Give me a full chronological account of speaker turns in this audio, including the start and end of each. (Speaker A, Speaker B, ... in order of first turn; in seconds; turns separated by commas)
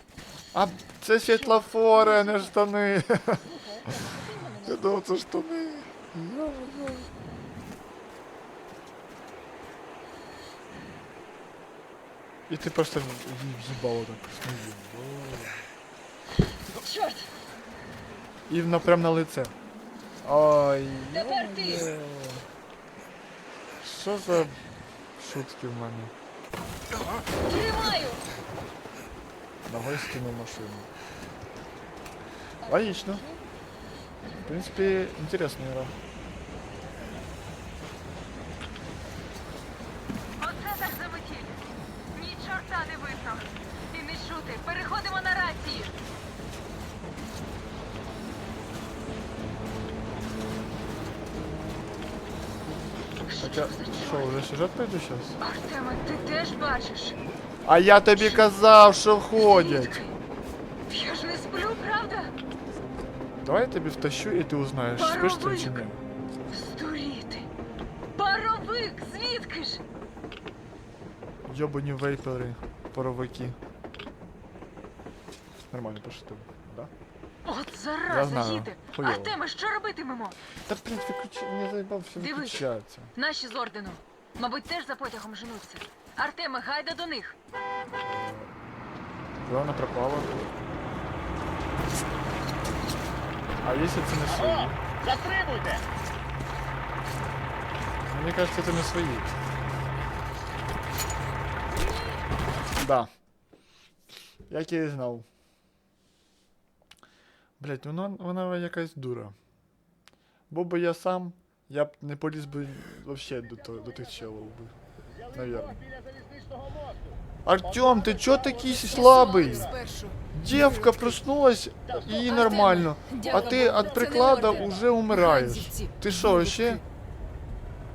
Speaker A: 0.5-4.0, Speaker B: 1.3-2.6, Speaker B: 3.4-5.0, Speaker A: 4.7-7.1, Speaker A: 12.5-15.6, Speaker B: 16.8-17.3, Speaker A: 18.5-19.5, Speaker A: 20.2-22.4, Speaker B: 21.1-21.9, Speaker A: 23.8-24.6, Speaker A: 25.2-26.1, Speaker B: 27.4-28.2, Speaker A: 29.7-30.9, Speaker B: 32.6-33.4, Speaker A: 32.6-33.2, Speaker B: 34.3-35.0, Speaker A: 34.4-36.0, Speaker B: 40.4-41.6, Speaker B: 42.1-45.9, Speaker B: 53.2-54.4, Speaker A: 53.4-55.4, Speaker B: 55.4-57.2, Speaker A: 57.6-60.0, Speaker B: 58.1-58.6, Speaker B: 59.3-60.2, Speaker B: 60.9-62.3, Speaker A: 63.4-66.0, Speaker B: 65.0-65.8, Speaker B: 66.5-67.5, Speaker B: 68.1-69.8, Speaker A: 71.5-73.6, Speaker A: 75.7-76.9, Speaker B: 77.5-80.4, Speaker A: 78.1-79.4, Speaker A: 80.7-83.1, Speaker B: 82.2-82.6, Speaker B: 83.2-87.3, Speaker A: 88.0-88.5, Speaker A: 89.4-90.4, Speaker A: 93.6-94.8, Speaker A: 98.1-99.3, Speaker A: 102.8-103.1, Speaker A: 104.5-105.3, Speaker A: 107.6-109.3, Speaker A: 110.5-114.7, Speaker A: 115.3-115.8, Speaker A: 117.5-119.7, Speaker B: 118.8-121.2, Speaker A: 120.3-126.8, Speaker B: 122.2-126.8